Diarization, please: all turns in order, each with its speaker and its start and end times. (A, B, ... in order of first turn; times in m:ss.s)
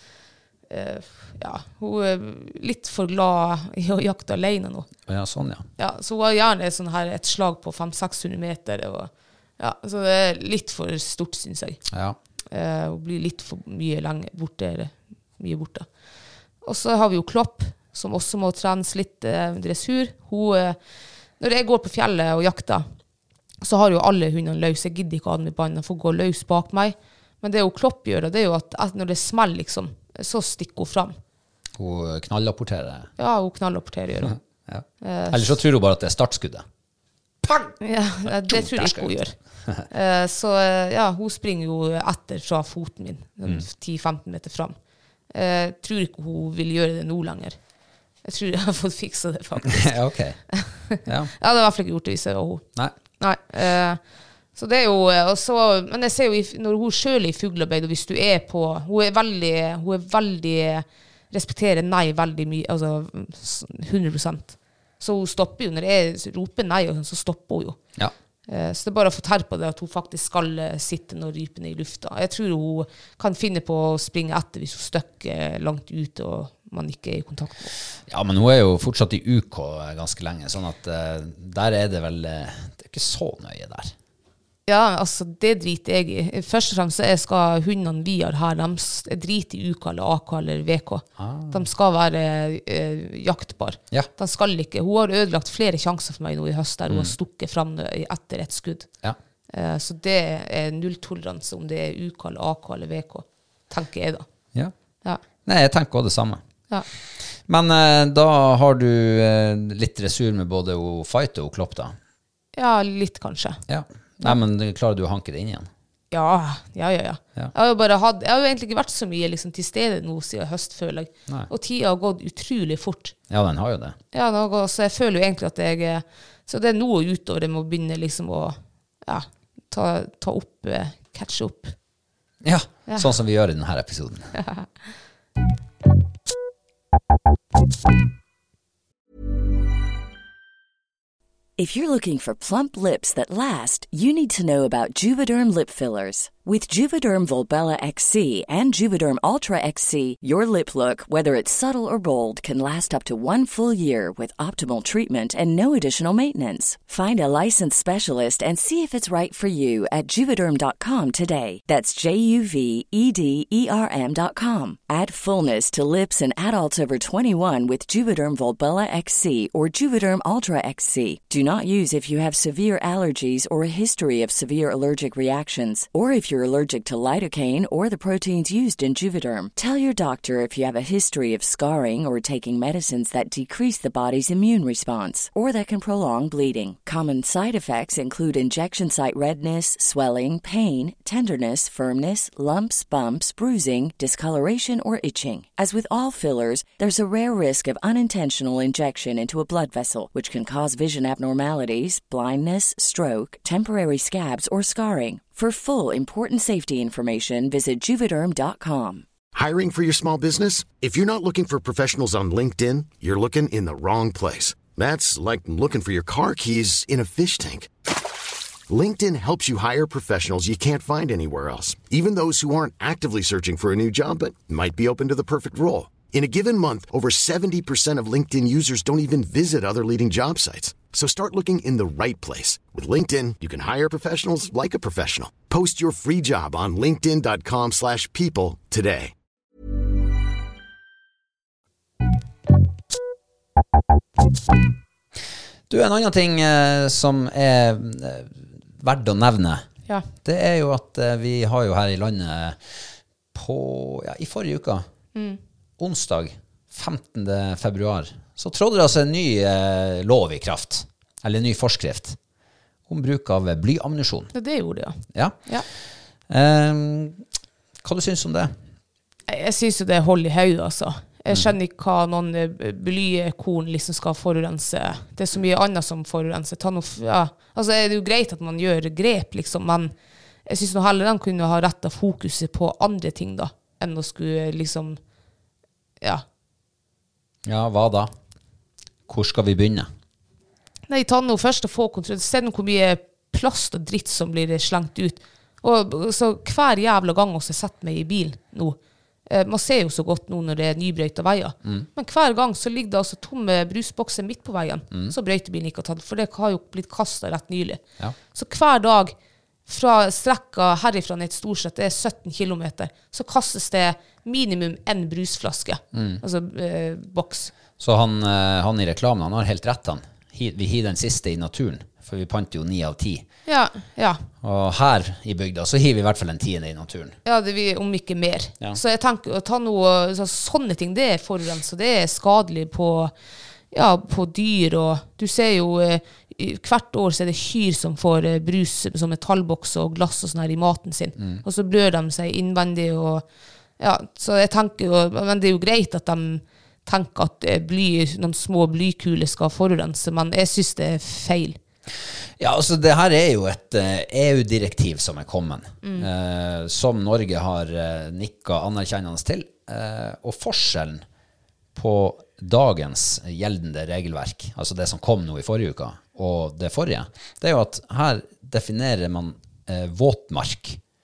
0:00.7-0:04.9 A
0:05.1-0:05.6 B
0:05.8-0:11.8 A
0:11.9-0:12.2 B
0:12.5-0:15.9 A
0:16.6-0:20.8 A
0:21.4-0:22.8 A
0:23.6-0:31.2 A
0:31.8-0:33.1 B
0:33.2-0:34.4 A
0:34.2-0:36.6 B
0:35.0-0:35.6 A
0:37.4-0:37.7 B
0:37.8-0:39.4 A
0:38.3-0:39.1 B
0:39.9-0:44.8 A
0:45.3-0:47.6 A
0:48.2-0:49.9 A
0:49.6-0:50.4 B
0:50.5-0:52.6 A
0:51.0-0:51.3 B
0:53.2-0:54.0 A
0:54.6-1:07.8 A
1:08.5-1:17.7 A
1:18.1-1:23.9 B
1:24.7-1:38.9 A
1:31.2-1:31.6 B
1:39.5-1:44.2 A
1:45.4-1:46.4 B
1:47.5-1:52.0 B
1:52.6-1:53.6 A
1:53.7-1:55.7 B
1:56.1-2:03.2 A
2:03.3-2:04.0 B
2:04.1-2:11.7 A
2:12.4-2:14.3 B
2:14.3-2:14.7 A
2:21.6-3:29.0 C
3:29.4-3:37.7 D
3:38.7-3:59.1 D
4:05.7-4:09.6 B
4:10.2-4:12.6 B
4:13.3-4:14.9 B
4:15.2-4:15.4 A
4:15.8-4:22.2 B
4:22.9-4:24.3 B
4:24.3-4:25.7 A
4:25.1-4:25.4 B
4:26.3-4:27.2 B
4:27.8-4:28.6 B
4:29.3-4:39.9 A
4:40.5-4:45.0 A
4:47.4-4:48.1 B
4:49.1-4:49.9 B
4:50.9-5:07.8 A
5:08.3-5:09.1 A
5:09.7-5:17.5 A
5:15.9-5:16.2 B
5:17.8-5:23.3 B
5:23.5-5:24.3 A
5:24.4-5:27.2 B
5:27.2-5:33.1 A
5:33.7-5:43.2 A
5:41.2-5:41.4 B
5:43.8-5:51.6 A
5:52.4-6:01.0 B
5:55.8-5:56.1 A
6:01.8-6:10.8 B